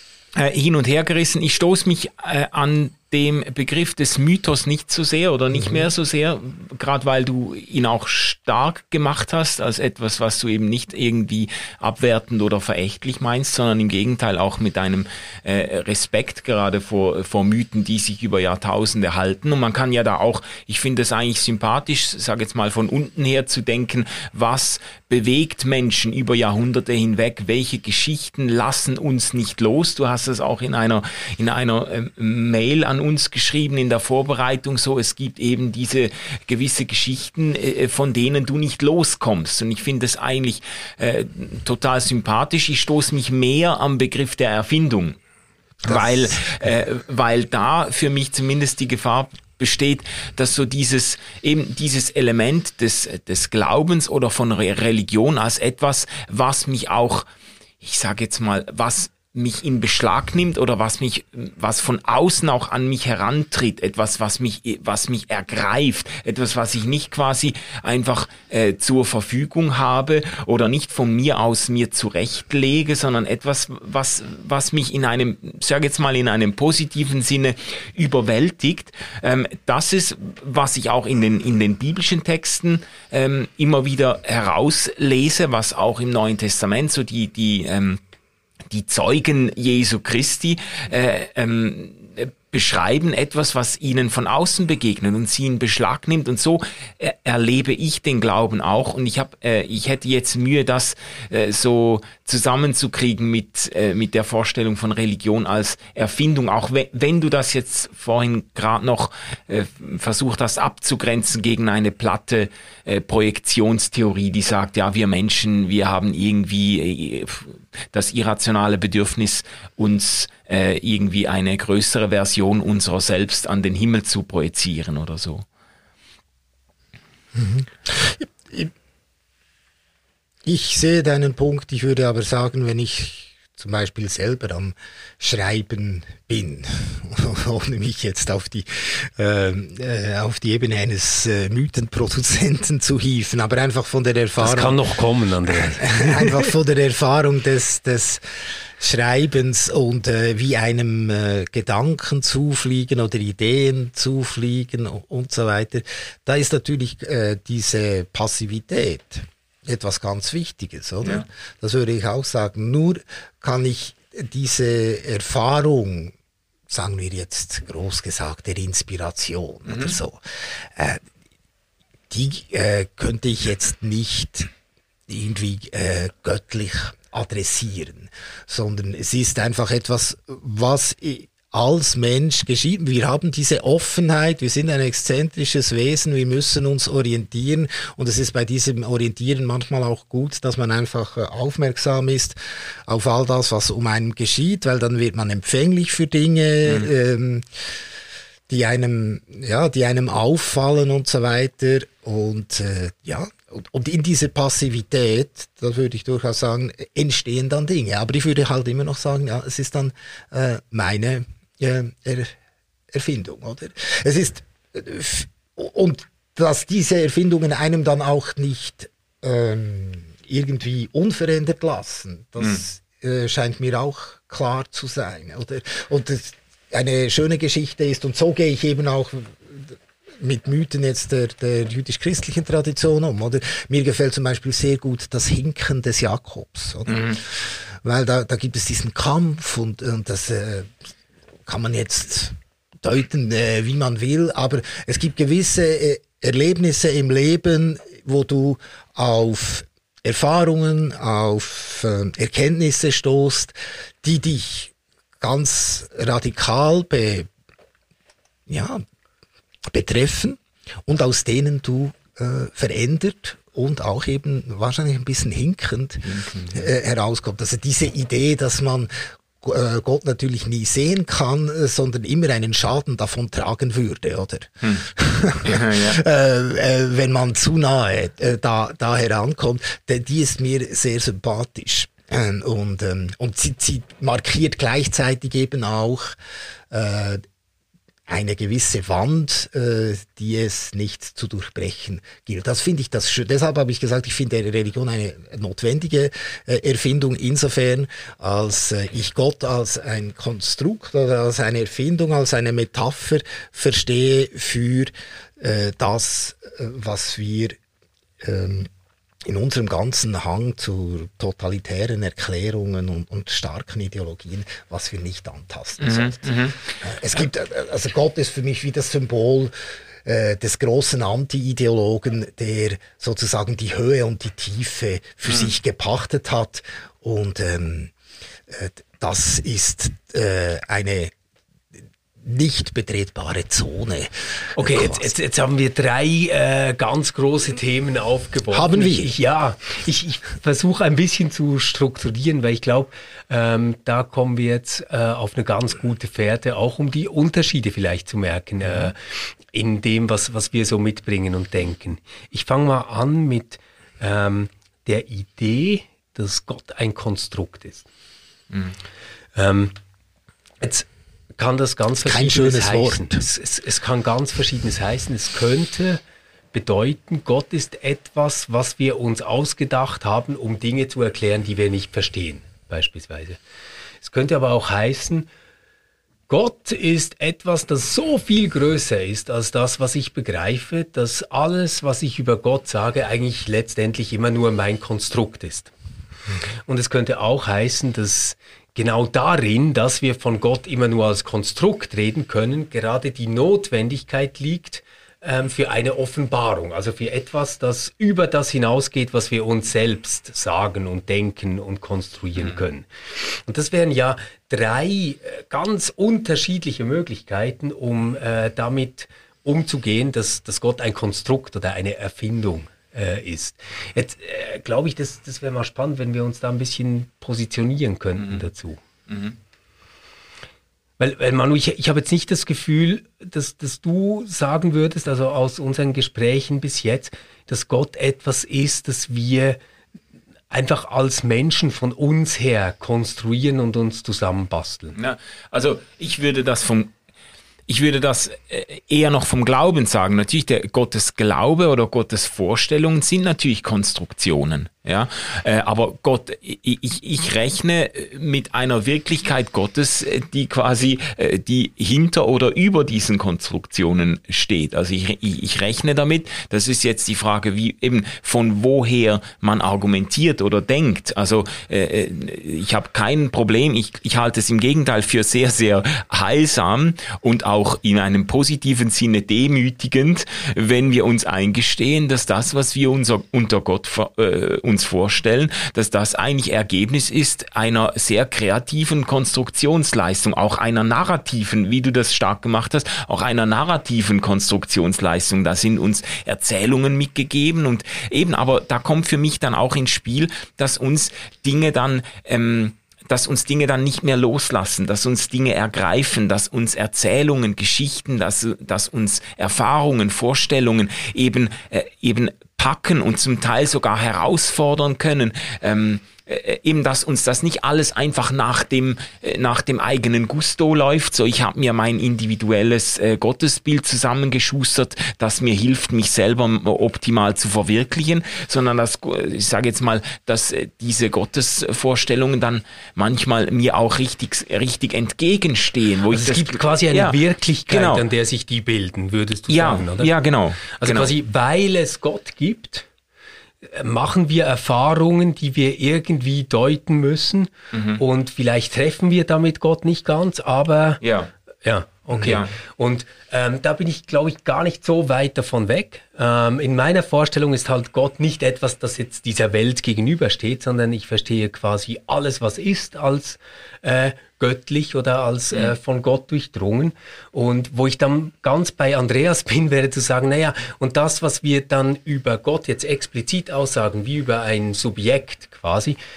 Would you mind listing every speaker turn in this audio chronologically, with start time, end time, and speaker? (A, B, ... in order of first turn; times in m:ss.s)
0:00.4-0:45.2 A
0:45.8-0:57.3 A
0:57.8-1:28.0 A
1:28.7-2:05.5 A
2:07.3-2:08.7 B
2:10.4-2:24.8 B
2:24.4-2:26.4 C
2:25.5-2:28.2 B
2:28.8-2:46.1 B
2:46.7-2:51.0 B
2:49.7-2:50.0 A
2:52.1-2:54.5 B
2:55.1-3:17.5 B
3:18.5-3:32.4 B
3:32.9-4:00.7 B
3:56.9-3:57.2 A
4:01.5-4:17.3 B
4:18.5-4:18.8 B
4:19.7-4:46.2 B
4:26.1-4:26.6 A
4:35.4-4:36.0 A
4:46.7-4:47.2 B
4:48.1-5:07.6 B
5:08.2-5:08.7 B
5:09.2-5:16.3 B
5:15.8-5:16.6 A
5:16.8-5:19.5 B
5:20.0-5:27.9 B
5:28.5-5:31.1 B
5:32.2-5:35.1 B
5:34.6-5:57.9 C
5:38.5-5:39.1 B
5:59.4-5:59.8 C
6:00.6-6:06.0 C
6:02.0-6:03.2 B
6:06.5-6:13.4 C
6:14.0-6:15.3 C
6:16.3-6:25.7 C
6:26.7-6:58.8 C
6:59.1-6:59.4 A
7:01.0-7:09.6 C
7:10.5-7:15.0 C
7:15.0-7:16.9 A
7:17.7-8:48.0 A
8:46.1-8:50.1 C
8:49.5-8:51.1 A
8:50.7-8:52.9 C
8:53.6-9:01.0 C
8:57.7-8:58.0 A
9:01.0-9:01.3 A
9:01.6-9:26.0 C
9:02.1-9:02.5 A